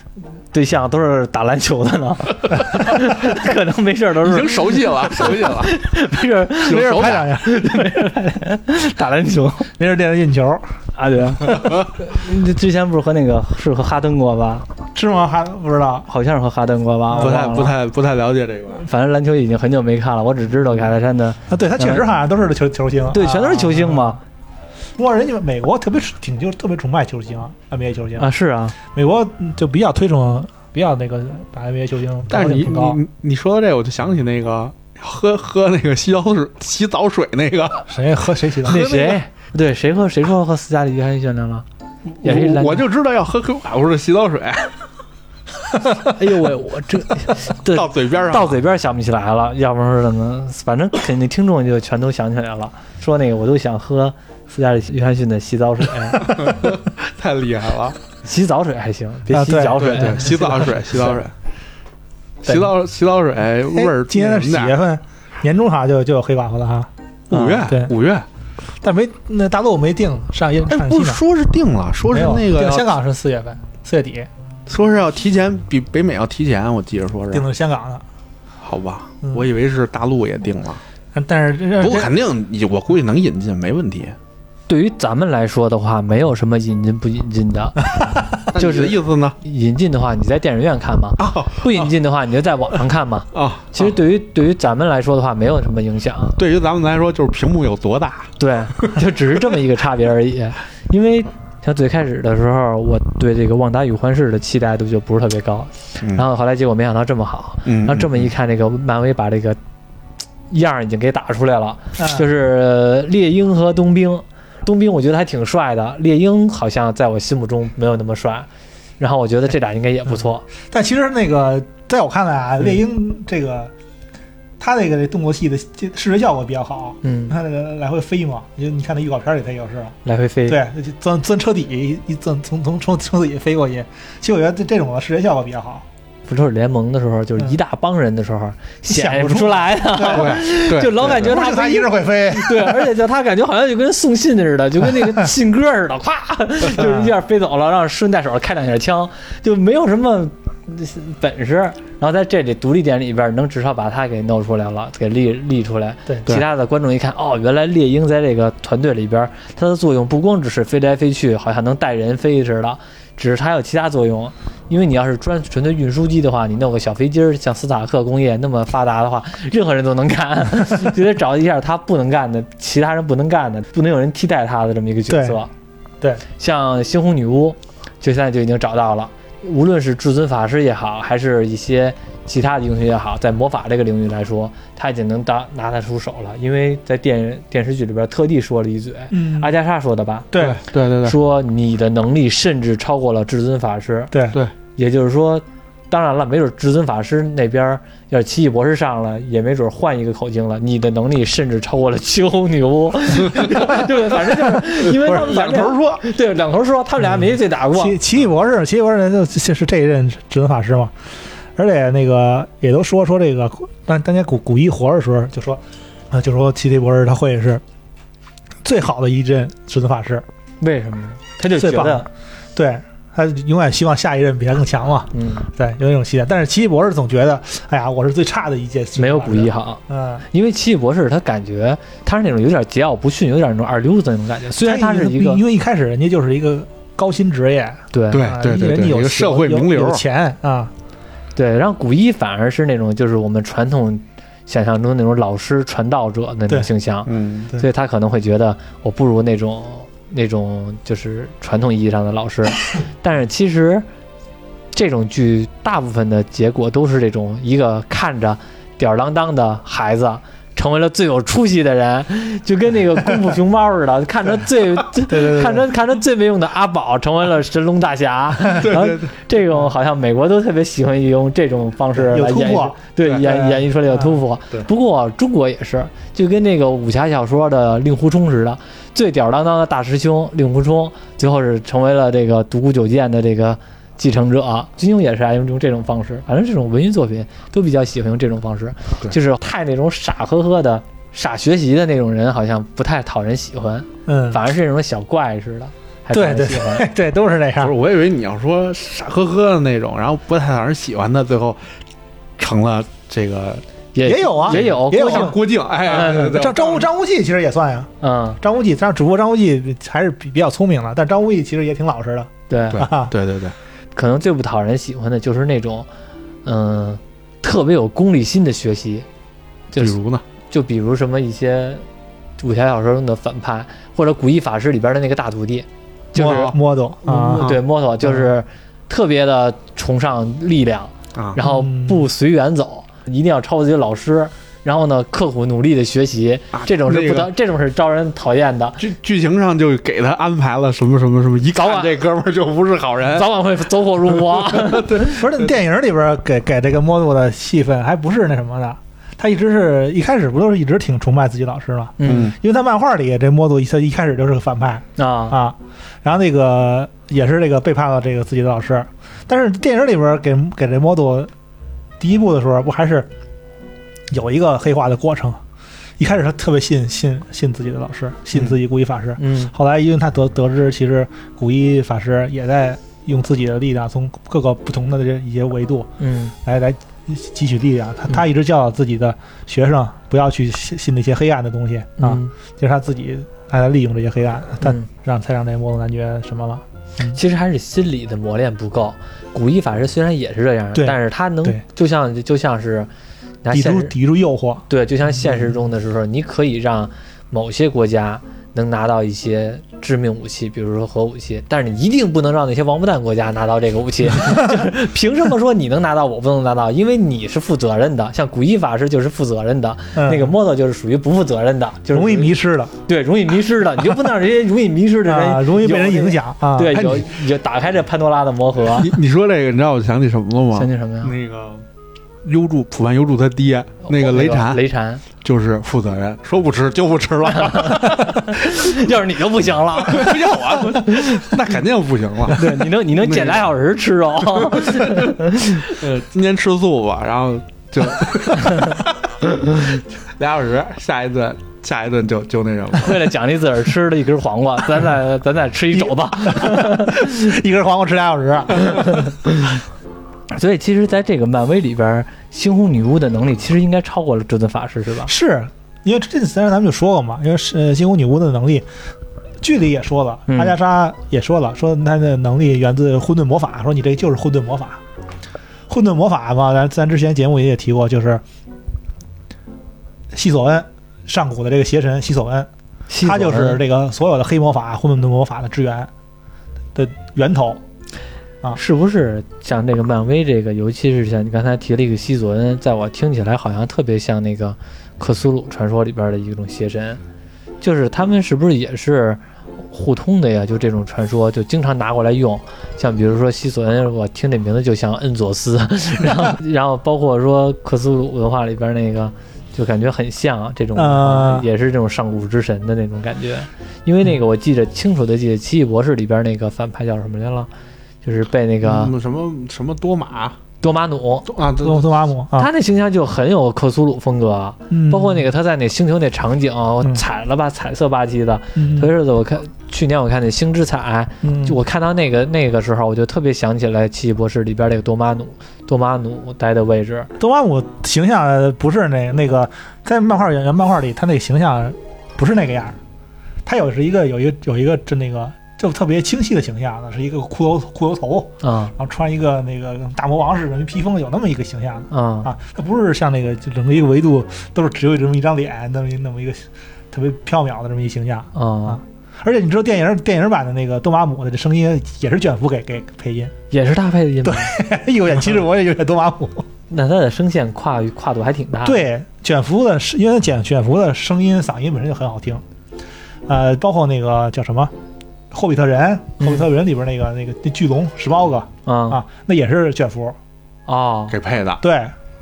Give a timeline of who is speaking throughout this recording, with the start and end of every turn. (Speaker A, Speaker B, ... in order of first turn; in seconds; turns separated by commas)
Speaker A: 0.5-9.7, Speaker B: 4.2-5.8, Speaker B: 6.6-7.3, Speaker C: 6.7-7.5, Speaker C: 9.8-10.7, Speaker A: 10.9-14.7, Speaker C: 14.9-16.1, Speaker A: 16.1-17.7, Speaker C: 17.1-17.4, Speaker B: 17.2-18.8, Speaker A: 18.8-22.0, Speaker C: 21.5-24.2, Speaker A: 23.1-24.2, Speaker C: 25.0-28.3, Speaker A: 28.2-28.8, Speaker C: 28.9-33.0, Speaker B: 32.3-37.9, Speaker C: 37.9-39.0, Speaker B: 38.6-39.2, Speaker A: 38.6-41.6, Speaker A: 42.2-42.9, Speaker B: 42.2-44.7, Speaker A: 45.9-56.5, Speaker B: 47.7-48.6, Speaker B: 56.2-58.0, Speaker A: 58.2-60.8, Speaker C: 59.3-59.8, Speaker B: 59.8-61.3, Speaker B: 62.4-64.8, Speaker C: 63.7-66.9, Speaker B: 67.3-68.2, Speaker C: 67.6-67.9, Speaker C: 68.8-71.2, Speaker B: 70.7-73.0, Speaker C: 72.1-74.3, Speaker B: 74.7-77.5, Speaker C: 77.3-78.0, Speaker B: 78.6-80.8, Speaker C: 81.1-82.1, Speaker B: 81.8-84.2, Speaker A: 84.7-96.4, Speaker B: 88.5-89.4, Speaker B: 91.2-91.9, Speaker B: 93.3-93.9, Speaker B: 96.4-99.0, Speaker A: 98.4-109.6, Speaker B: 107.7-108.3, Speaker A: 110.5-118.5, Speaker C: 112.0-112.2, Speaker A: 119.0-120.4, Speaker C: 120.7-123.7, Speaker C: 124.6-129.9, Speaker A: 127.0-127.4, Speaker A: 130.0-130.6, Speaker C: 130.5-135.8, Speaker A: 136.3-175.5, Speaker C: 138.9-140.4, Speaker B: 140.1-141.3, Speaker C: 141.1-142.9, Speaker C: 146.7-147.1, Speaker C: 175.1-175.4, Speaker A: 176.4-190.3, Speaker C: 189.1-189.5, Speaker C: 190.3-190.6, Speaker B: 190.4-191.2, Speaker A: 191.0-194.1, Speaker C: 194.1-194.4, Speaker A: 194.8-208.0, Speaker B: 204.6-206.0, Speaker C: 207.2-210.9, Speaker C: 211.5-217.6, Speaker C: 218.6-220.2, Speaker A: 220.6-222.1, Speaker C: 221.6-230.2, Speaker A: 225.1-225.5, Speaker A: 228.9-235.4, Speaker C: 234.6-240.7, Speaker A: 237.9-238.3, Speaker B: 238.1-240.0, Speaker A: 241.3-253.8, Speaker B: 247.1-247.5, Speaker A: 254.7-296.9, Speaker C: 265.1-265.6, Speaker B: 268.6-269.1, Speaker C: 271.9-274.2, Speaker C: 294.1-294.4, Speaker C: 296.1-297.7, Speaker B: 297.6-301.6, Speaker B: 302.4-303.6, Speaker A: 303.9-305.3, Speaker C: 304.0-313.1, Speaker B: 304.4-306.8, Speaker A: 305.9-306.3, Speaker A: 308.0-308.4, Speaker A: 312.5-312.9, Speaker B: 312.7-313.5, Speaker A: 313.9-315.9, Speaker A: 316.4-319.1, Speaker B: 319.8-320.2, Speaker A: 320.5-321.9, Speaker A: 322.4-326.5, Speaker B: 326.1-326.5, Speaker C: 326.1-327.4, Speaker A: 327.0-338.8, Speaker C: 331.4-332.1, Speaker B: 336.5-337.3, Speaker B: 338.8-343.3, Speaker A: 341.5-341.9, Speaker A: 343.1-345.2, Speaker B: 344.2-345.5, Speaker C: 345.1-361.3, Speaker A: 352.0-352.3, Speaker B: 352.0-352.4, Speaker A: 355.0-355.4, Speaker C: 362.0-363.1, Speaker C: 364.1-365.4, Speaker C: 366.0-375.9, Speaker A: 369.2-369.5, Speaker A: 376.0-376.3, Speaker C: 376.4-387.2, Speaker A: 382.0-382.3, Speaker A: 387.1-392.9, Speaker C: 390.7-391.6, Speaker A: 393.4-393.9, Speaker C: 393.5-395.5, Speaker A: 394.7-412.3, Speaker C: 404.2-404.6, Speaker C: 409.9-410.3, Speaker C: 411.9-412.7, Speaker A: 412.9-418.9, Speaker C: 415.0-416.9, Speaker B: 416.7-417.1, Speaker B: 418.7-421.6, Speaker A: 420.5-421.1, Speaker B: 422.2-424.6, Speaker A: 423.9-425.0, Speaker B: 425.2-428.4, Speaker A: 427.3-431.3, Speaker B: 429.8-433.4, Speaker A: 432.3-435.7, Speaker B: 434.3-443.0, Speaker A: 442.8-447.2, Speaker C: 445.8-449.1, Speaker A: 448.7-449.6, Speaker A: 450.3-455.1, Speaker C: 455.1-458.6, Speaker C: 459.4-464.8, Speaker A: 460.3-460.6, Speaker C: 465.7-468.2, Speaker C: 470.1-472.5, Speaker A: 472.9-473.6, Speaker C: 473.0-475.9, Speaker C: 476.7-477.6, Speaker A: 478.5-487.0, Speaker A: 487.6-507.5, Speaker C: 500.7-501.5, Speaker A: 508.0-508.9, Speaker B: 508.6-510.4, Speaker A: 510.6-511.3, Speaker B: 511.3-511.9, Speaker C: 511.6-512.5, Speaker A: 512.4-527.1, Speaker C: 514.7-515.2, Speaker C: 518.5-518.9, Speaker C: 521.2-521.6, Speaker C: 527.2-532.8, Speaker C: 533.4-553.3, Speaker A: 538.4-538.7, Speaker A: 541.9-542.3, Speaker A: 548.3-548.8, Speaker A: 553.5-554.5, Speaker C: 554.2-556.5, Speaker A: 556.7-558.8, Speaker C: 558.6-562.4, Speaker C: 563.3-564.7, Speaker C: 565.3-570.2, Speaker A: 566.2-566.5, Speaker A: 568.6-569.0, Speaker A: 570.7-571.1, Speaker B: 571.1-571.6, Speaker C: 571.6-571.9